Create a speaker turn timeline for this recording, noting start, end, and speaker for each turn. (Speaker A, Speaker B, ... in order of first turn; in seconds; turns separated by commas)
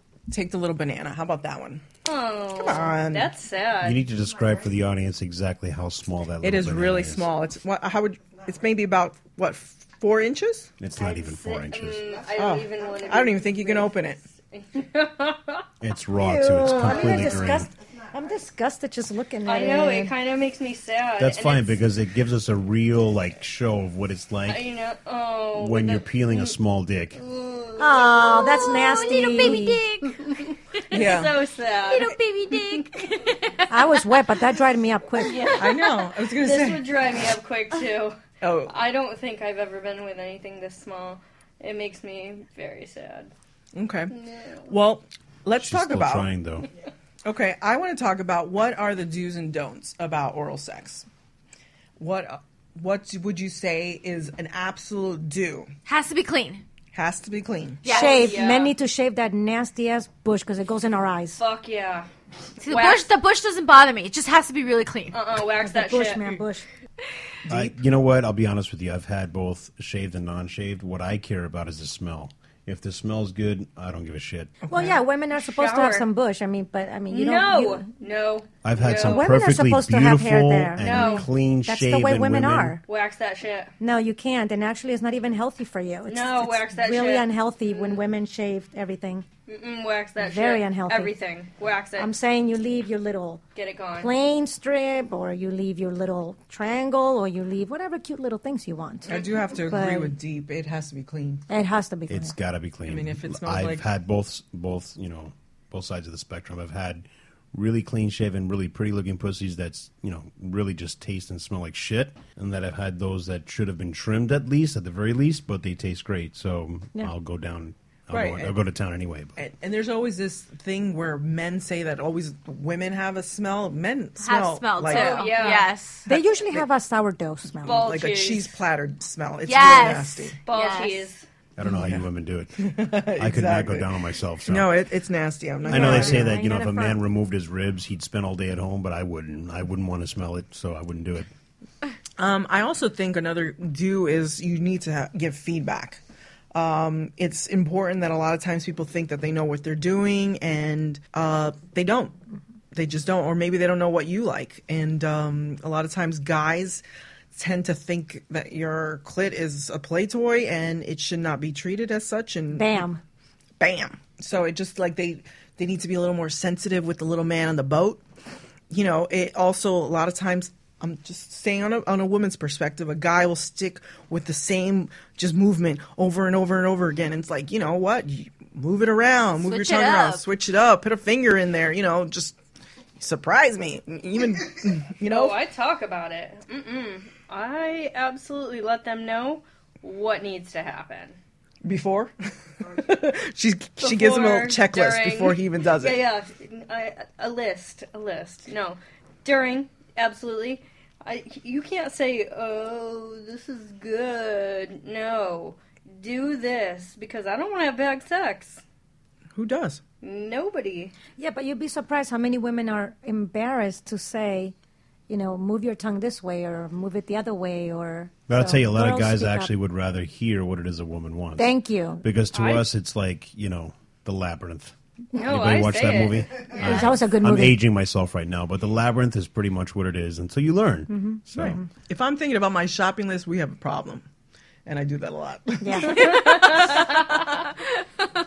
Speaker A: 0.3-1.8, Speaker B: 2.0-4.0, Speaker A: 2.5-3.3, Speaker C: 3.8-7.3, Speaker A: 6.4-10.7, Speaker C: 10.8-12.1, Speaker B: 10.9-13.9, Speaker A: 12.4-14.2, Speaker B: 14.5-15.6, Speaker C: 15.8-17.7, Speaker D: 16.1-20.1, Speaker B: 16.7-17.4, Speaker B: 19.4-21.8, Speaker C: 21.2-24.7, Speaker B: 24.5-26.6, Speaker C: 25.6-27.2, Speaker B: 27.1-33.3, Speaker D: 27.8-29.8, Speaker E: 28.2-30.2, Speaker A: 30.9-31.3, Speaker E: 31.9-34.1, Speaker D: 33.7-35.4, Speaker B: 35.2-43.3, Speaker A: 35.6-36.8, Speaker A: 38.4-38.7, Speaker A: 43.7-44.1, Speaker B: 44.1-44.7, Speaker A: 44.7-46.3, Speaker C: 45.6-46.7, Speaker A: 47.2-51.0, Speaker A: 52.0-55.7, Speaker E: 55.8-56.6, Speaker A: 56.9-57.8, Speaker E: 57.8-58.4, Speaker B: 57.9-58.7, Speaker D: 57.9-61.4, Speaker B: 61.4-62.1, Speaker E: 62.6-65.2, Speaker B: 62.6-63.0, Speaker B: 65.1-66.3, Speaker D: 65.6-66.6, Speaker A: 67.5-67.8, Speaker C: 67.5-74.5, Speaker A: 74.6-75.0, Speaker D: 74.7-77.8, Speaker B: 75.4-76.0, Speaker B: 77.1-79.3, Speaker C: 78.6-82.8, Speaker D: 79.0-82.8, Speaker B: 80.8-81.3, Speaker B: 82.9-83.7, Speaker D: 83.8-89.2, Speaker B: 86.1-88.0, Speaker B: 89.5-92.1, Speaker D: 90.2-91.1, Speaker D: 92.0-93.4, Speaker B: 93.5-94.1, Speaker D: 94.0-100.1, Speaker A: 99.0-101.4, Speaker B: 99.1-99.4, Speaker D: 101.5-102.3, Speaker C: 102.1-119.3, Speaker A: 102.8-103.8, Speaker A: 118.1-118.6, Speaker A: 119.4-125.3, Speaker E: 124.2-126.1, Speaker B: 124.8-125.7, Speaker D: 126.1-127.8, Speaker B: 127.6-128.5, Speaker A: 127.6-130.4, Speaker E: 129.4-131.1, Speaker B: 130.4-131.2, Speaker C: 131.6-132.5, Speaker A: 131.6-132.0, Speaker A: 132.6-133.9, Speaker C: 133.2-134.7, Speaker A: 134.4-136.3, Speaker D: 135.6-137.0, Speaker C: 135.7-141.3, Speaker A: 142.2-146.0, Speaker A: 146.5-152.1, Speaker A: 152.7-156.8, Speaker A: 157.3-162.8, Speaker D: 162.5-163.0, Speaker A: 163.6-168.0, Speaker A: 168.7-182.4, Speaker E: 179.4-180.2, Speaker A: 183.0-185.4, Speaker B: 185.0-191.1, Speaker A: 191.6-192.1, Speaker A: 192.7-196.0, Speaker B: 193.8-208.6, Speaker A: 209.3-209.8, Speaker B: 210.0-210.9, Speaker D: 211.2-214.5, Speaker D: 215.1-219.5, Speaker C: 218.3-231.6, Speaker D: 221.4-222.0, Speaker B: 222.3-222.7, Speaker B: 225.1-226.9, Speaker D: 226.6-227.6, Speaker D: 230.9-231.7, Speaker A: 231.4-234.0, Speaker A: 234.7-237.0, Speaker D: 235.6-236.2, Speaker B: 235.9-237.0